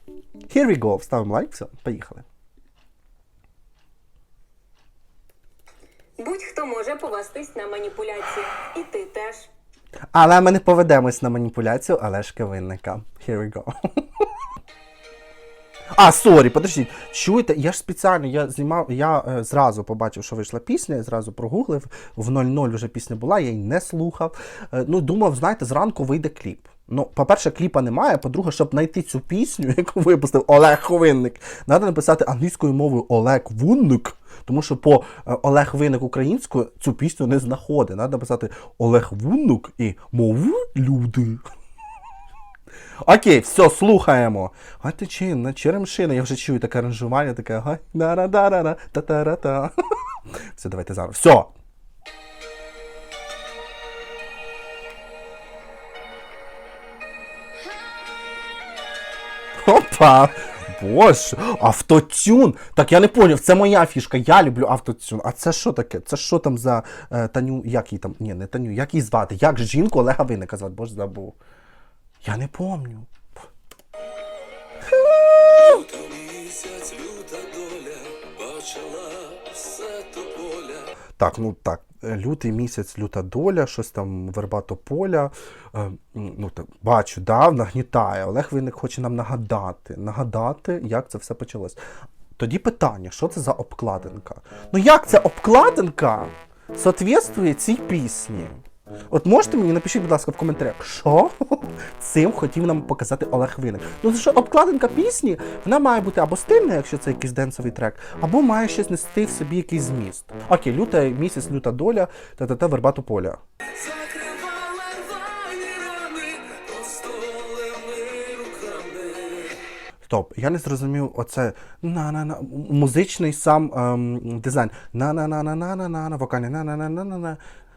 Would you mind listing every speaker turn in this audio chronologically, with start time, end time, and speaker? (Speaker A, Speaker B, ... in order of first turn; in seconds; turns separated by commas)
Speaker A: 0.5-2.2, Speaker B: 6.2-9.5, Speaker A: 10.1-14.3, Speaker A: 15.9-41.5, Speaker A: 43.0-49.7, Speaker A: 50.5-51.5, Speaker A: 59.6-71.4, Speaker A: 72.2-73.3, Speaker A: 74.9-75.8, Speaker C: 75.5-80.9, Speaker A: 81.2-91.8, Speaker A: 92.4-113.4, Speaker C: 113.8-119.6, Speaker A: 120.0-127.4